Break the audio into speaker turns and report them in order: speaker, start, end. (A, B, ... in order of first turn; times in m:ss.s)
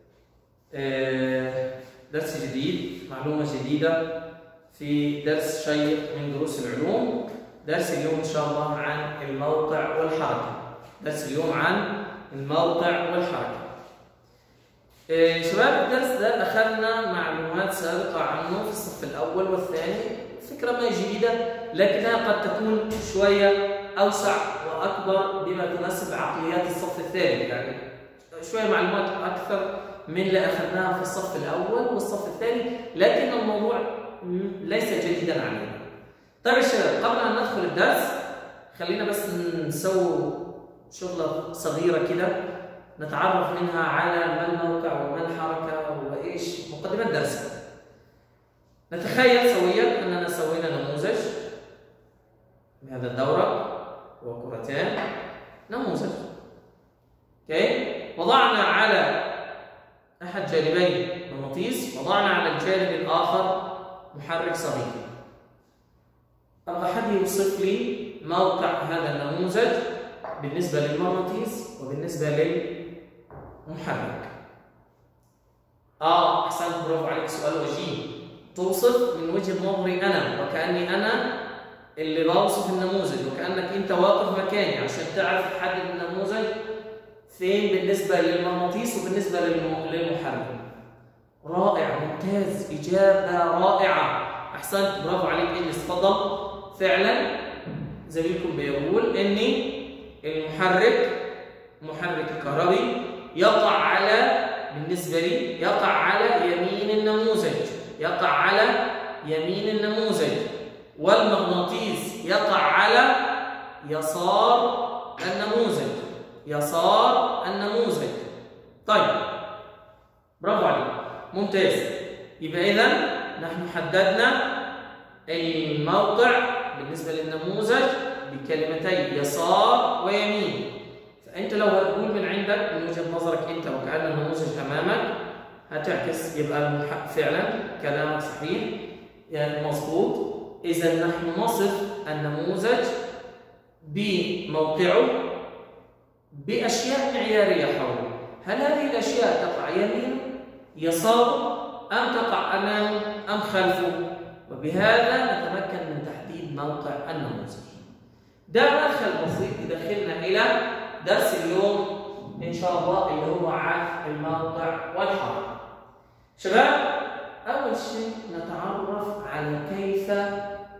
0:00.7-0:04.0 A
0:04.7-0:13.7 A
0:15.1-0:27.8 A
0:28.3-0:35.8 A
0:36.4-0:38.1 A
0:38.7-0:40.4 A
0:40.9-0:42.3 A
0:43.0-0:47.5 A
0:48.9-0:51.3 A
0:52.8-0:53.6 A
0:54.2-0:55.0 A
0:55.7-0:56.2 A
0:57.4-0:59.1 A
1:00.2-1:03.6 A
1:04.1-1:05.0 A
1:06.7-1:09.8 A
1:10.4-1:12.6 A
1:13.7-1:14.3 A
1:16.0-1:21.2 A
1:22.0-1:26.5 A
1:27.3-1:30.5 A
1:31.4-1:37.3 A
1:38.0-1:39.6 A
1:40.2-1:41.1 A
1:41.8-1:53.1 A
1:53.8-1:58.3 A
1:58.8-1:59.2 A
2:00.4-2:04.4 A
2:05.3-2:10.6 A
2:11.2-2:15.1 A
2:15.7-2:18.7 A
2:19.3-2:22.9 A
2:23.8-2:25.1 A
2:26.3-2:30.2 A
2:30.8-2:37.8 A
2:38.5-2:41.8 A
2:42.4-2:45.5 A
2:46.4-2:46.8 A
2:47.4-2:50.3 A